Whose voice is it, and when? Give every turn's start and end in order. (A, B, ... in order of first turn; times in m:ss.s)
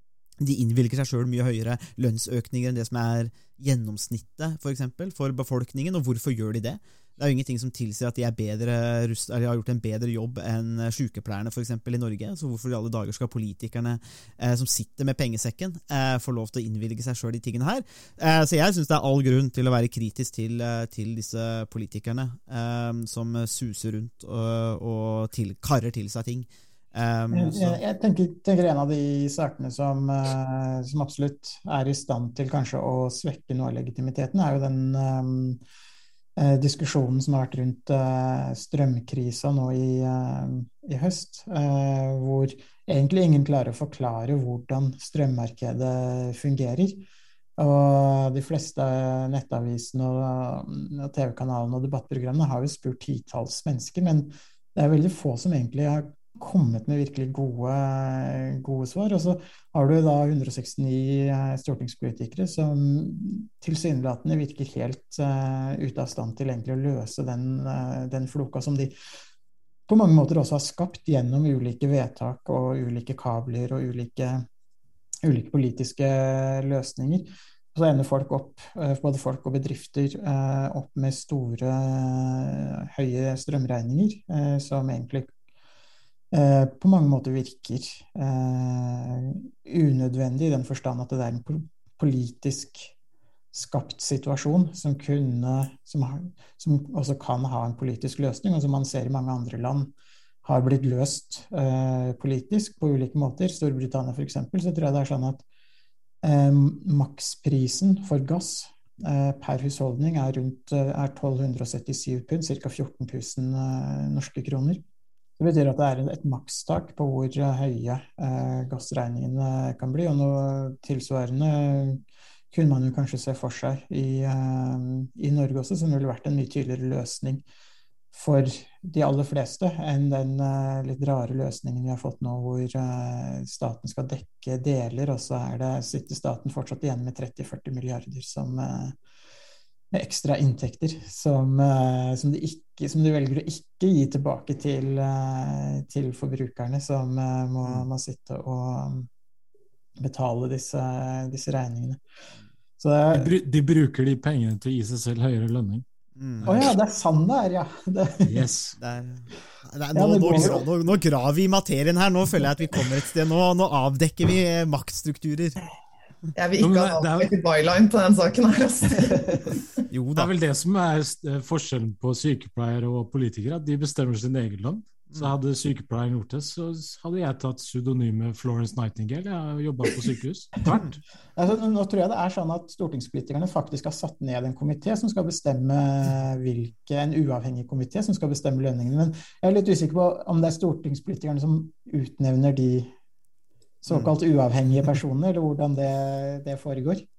0:00.4-0:27.8 A
0:27.3-0:35.6 B
0:36.4-0:47.0 B
0:47.6-1:08.9 B
1:09.9-1:14.4 B
1:15.2-1:25.3 B
1:26.3-1:32.9 B
1:33.5-1:39.9 B
1:40.4-1:45.4 B
1:46.2-1:54.8 B
1:55.4-2:02.0 B
2:02.5-2:07.4 B
2:08.1-2:19.0 B
2:19.9-2:29.1 B
2:30.0-2:32.0 B
2:32.8-2:33.3 B
2:33.1-2:35.8 C
2:36.2-2:36.5 A
2:36.4-2:36.7 C
2:36.4-2:38.5 B
2:38.3-2:38.8 C
2:38.8-2:45.6 A
2:39.9-2:40.7 B
2:46.4-2:49.6 D
2:46.6-2:47.3 C
2:49.9-2:50.3 A
2:50.2-3:00.9 C
3:01.4-3:12.9 B
3:13.8-3:17.1 B